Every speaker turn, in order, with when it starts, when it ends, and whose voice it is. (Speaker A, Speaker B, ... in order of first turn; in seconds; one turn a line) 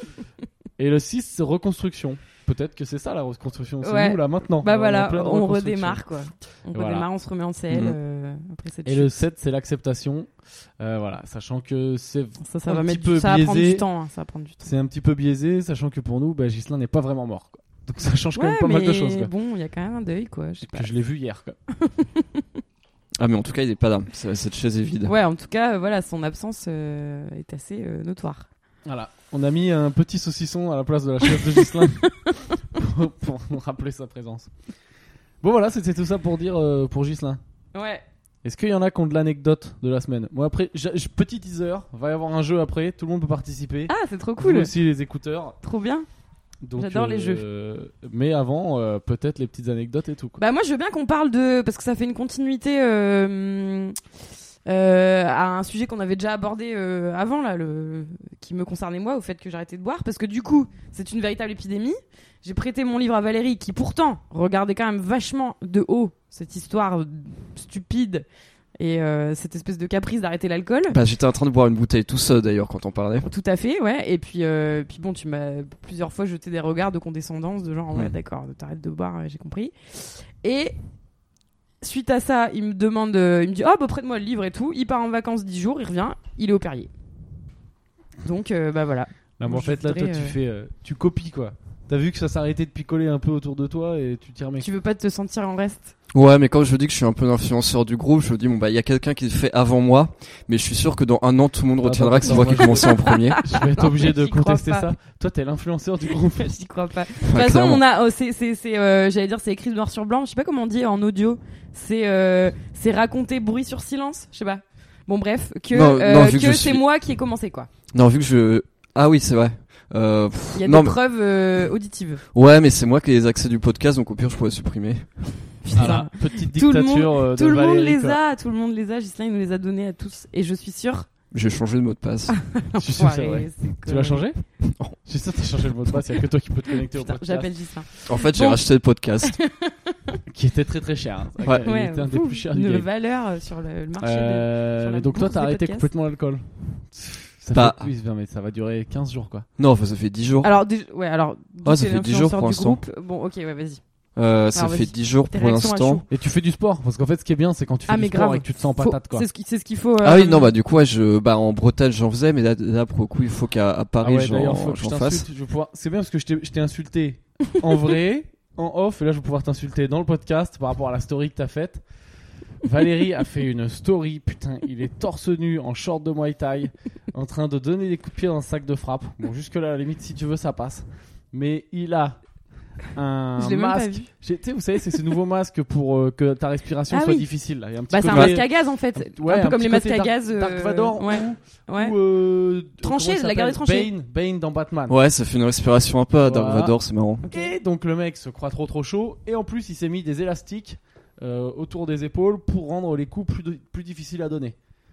Speaker A: 0.8-6.0
Speaker B: 3.8-9.1
Speaker A: 6.7-7.1
Speaker C: 7.7-8.0
Speaker A: 8.8-13.8
Speaker B: 12.4-14.6
Speaker A: 14.6-19.3
Speaker B: 18.4-20.9
Speaker A: 20.6-21.6
Speaker B: 21.7-22.4
Speaker C: 23.2-25.1
Speaker B: 25.1-28.5
Speaker A: 28.9-32.1
Speaker A: 32.7-34.5
Speaker A: 35.4-37.4
Speaker B: 37.7-38.0
Speaker A: 38.4-45.6
Speaker B: 43.9-44.7
Speaker B: 45.6-46.1
Speaker A: 46.6-50.4
Speaker B: 46.8-47.4
Speaker B: 50.4-54.0
Speaker B: 54.7-68.2
Speaker B: 68.8-71.0
Speaker C: 70.9-73.3
Speaker B: 73.2-80.8
Speaker B: 81.8-86.9
Speaker B: 88.2-90.4
Speaker A: 89.4-94.7
Speaker B: 94.6-95.9
Speaker C: 96.1-103.4
Speaker A: 101.8-106.5
Speaker B: 102.3-104.9
Speaker B: 106.2-117.7
Speaker C: 107.3-107.8
Speaker C: 115.7-116.8
Speaker C: 117.9-121.0
Speaker B: 120.5-122.2
Speaker C: 122.3-126.0
Speaker B: 125.6-131.1
Speaker A: 125.8-128.2
Speaker C: 131.3-132.4
Speaker B: 132.4-134.2
Speaker A: 132.8-134.4
Speaker C: 134.6-135.0
Speaker A: 135.0-137.5
Speaker B: 136.9-138.6
Speaker C: 138.1-139.4
Speaker B: 139.2-140.2
Speaker A: 140.3-142.9
Speaker B: 141.6-145.9
Speaker A: 144.0-149.5
Speaker C: 147.5-147.9
Speaker C: 149.6-150.5
Speaker B: 150.4-153.8
Speaker C: 151.7-152.8
Speaker C: 154.2-156.0
Speaker B: 154.5-156.1
Speaker A: 156.1-159.2
Speaker B: 157.9-160.5
Speaker C: 160.0-165.2
Speaker A: 164.0-171.8
Speaker A: 172.6-182.2
Speaker A: 182.9-195.0
Speaker B: 183.4-184.1
Speaker B: 186.9-187.3
Speaker B: 187.9-192.0
Speaker C: 188.1-188.4
Speaker B: 192.8-193.9
Speaker C: 194.9-197.2
Speaker A: 196.2-196.8
Speaker B: 197.2-197.6
Speaker A: 197.3-204.6